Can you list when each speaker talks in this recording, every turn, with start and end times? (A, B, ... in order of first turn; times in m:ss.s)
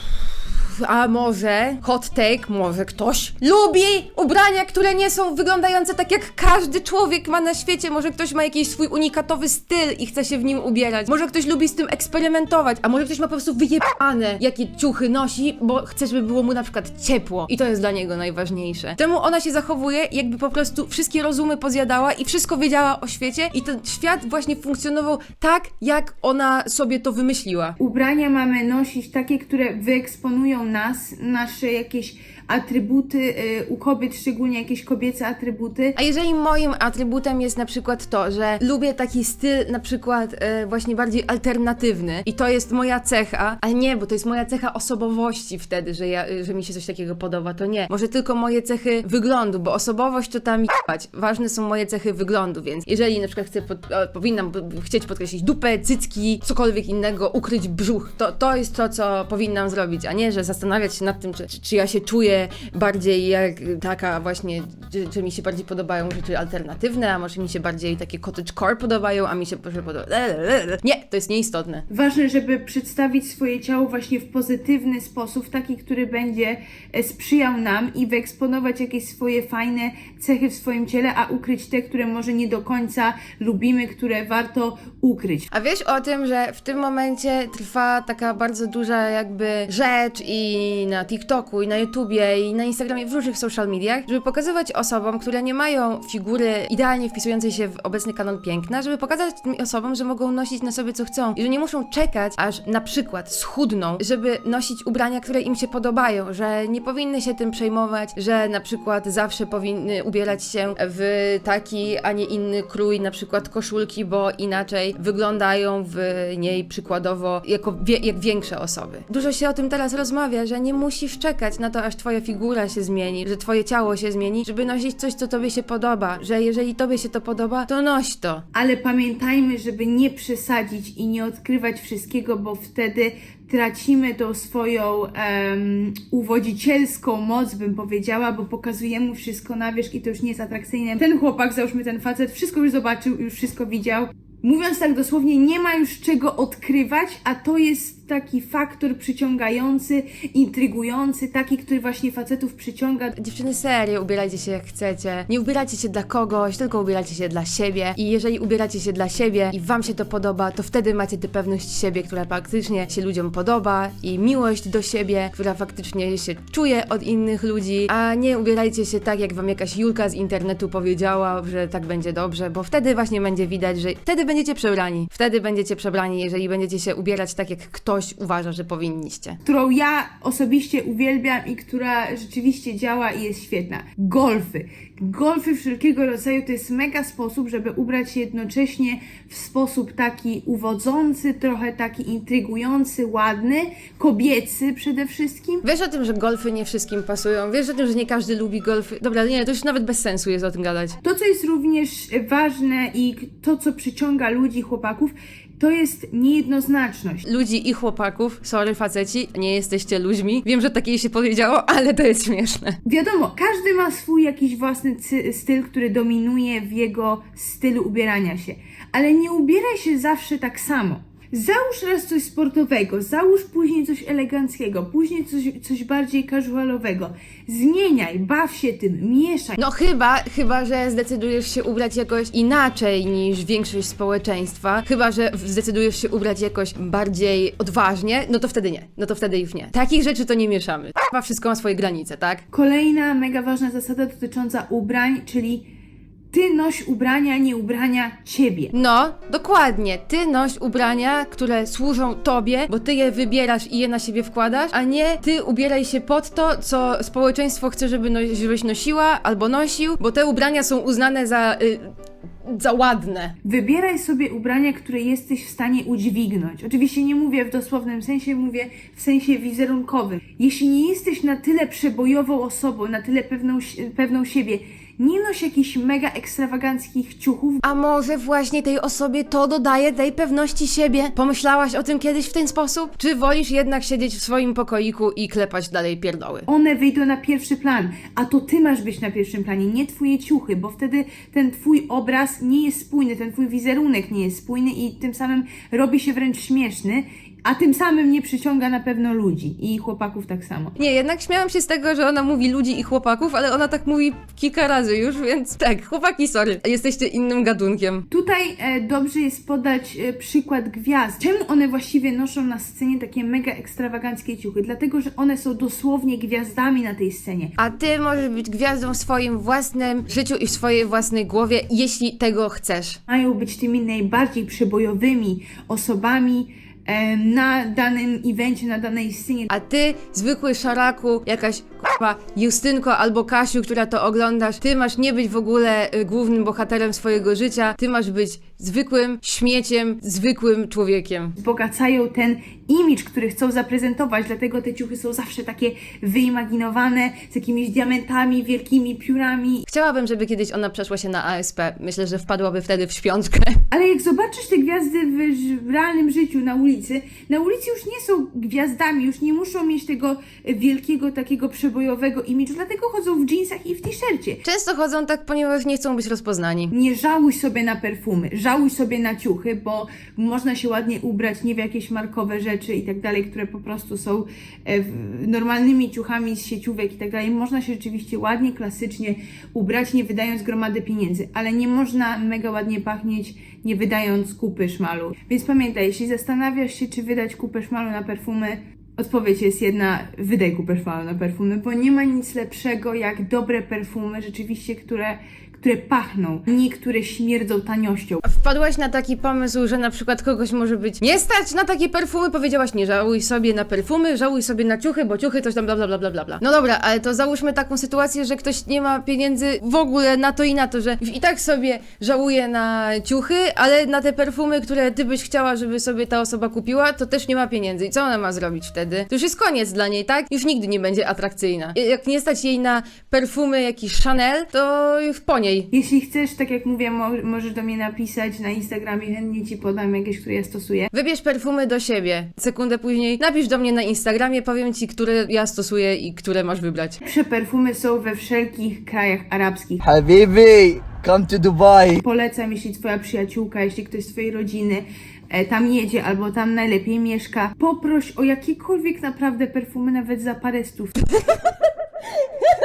0:00.6-0:27.8 A
0:27.8-0:36.0 B
0:36.0-1:11.8 A
1:11.9-1:25.5 B
1:25.5-2:08.4 A
2:08.5-2:33.1 B
2:33.1-2:59.4 A
2:59.4-3:15.6 B
3:15.6-3:21.0 A
3:21.0-3:27.2 B
3:27.2-3:32.8 A
3:32.8-3:49.6 B
3:49.6-4:02.4 A
4:02.5-4:05.7 B
4:06.3-4:08.7 B
4:08.7-4:21.9 A
4:22.4-4:23.3 A
4:23.4-4:37.6 B
4:37.6-4:46.5 A
4:46.5-5:00.7 B
5:00.8-5:08.0 A
5:08.1-5:17.5 B
5:17.6-5:23.0 A
5:23.1-5:29.5 B
5:29.5-5:41.3 A
5:41.4-5:49.6 B
5:49.6-5:53.6 A
5:53.7-6:04.4 B
6:04.4-6:06.7 A
6:06.7-6:38.2 B
6:38.2-7:05.7 A
7:05.7-7:10.9 B
7:10.9-7:17.0 A
7:17.0-7:19.8 B
7:19.8-7:22.0 C
7:22.0-7:31.0 B